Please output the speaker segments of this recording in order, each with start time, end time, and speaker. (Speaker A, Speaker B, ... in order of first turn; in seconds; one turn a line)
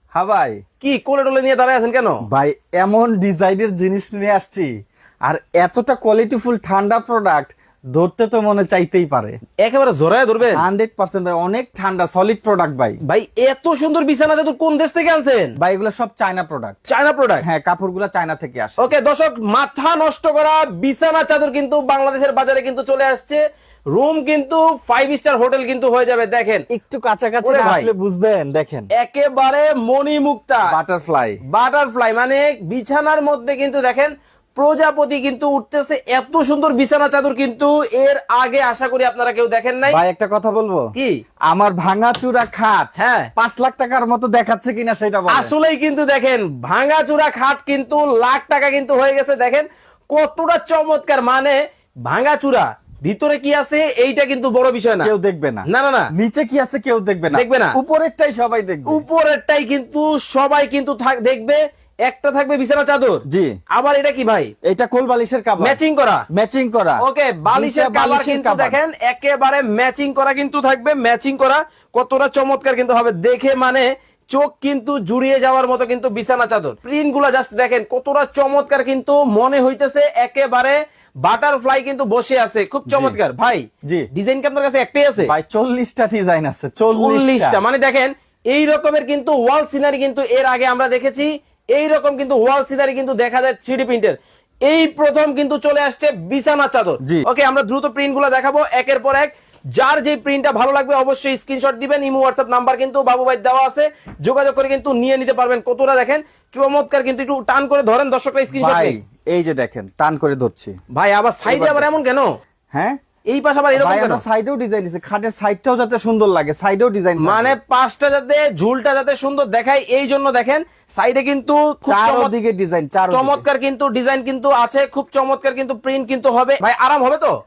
Speaker A: 0.1-0.6
Speaker B: 0.8-2.2
Speaker A: 2.3-4.7
Speaker A: 5.2-9.4
Speaker B: 9.6-10.6
Speaker A: 10.5-13.0
Speaker B: 13.1-15.5
Speaker A: 15.6-16.8
Speaker B: 16.9-17.4
Speaker A: 17.4-18.9
Speaker B: 18.8-23.4
Speaker B: 23.9-26.6
Speaker A: 26.7-28.9
Speaker B: 27.4-27.9
Speaker B: 28.9-30.7
Speaker A: 30.7-31.4
Speaker B: 31.5-40.0
Speaker A: 39.9-40.9
Speaker A: 41.5-45.5
Speaker B: 43.0-43.3
Speaker B: 45.3-55.1
Speaker A: 55.0-59.0
Speaker B: 55.7-56.1
Speaker B: 57.3-57.8
Speaker B: 58.9-63.2
Speaker A: 63.3-63.6
Speaker B: 63.7-64.5
Speaker A: 64.7-65.8
Speaker B: 65.6-66.2
Speaker A: 66.3-68.8
Speaker B: 67.0-85.3
Speaker A: 82.9-83.2
Speaker A: 85.2-87.6
Speaker B: 86.9-94.2
Speaker B: 94.7-109.0
Speaker A: 108.5-110.8
Speaker B: 110.9-112.3
Speaker A: 111.5-111.9
Speaker A: 112.7-113.0
Speaker B: 113.3-114.2
Speaker A: 113.7-117.5
Speaker B: 117.2-122.3
Speaker A: 121.9-123.4
Speaker B: 123.1-127.3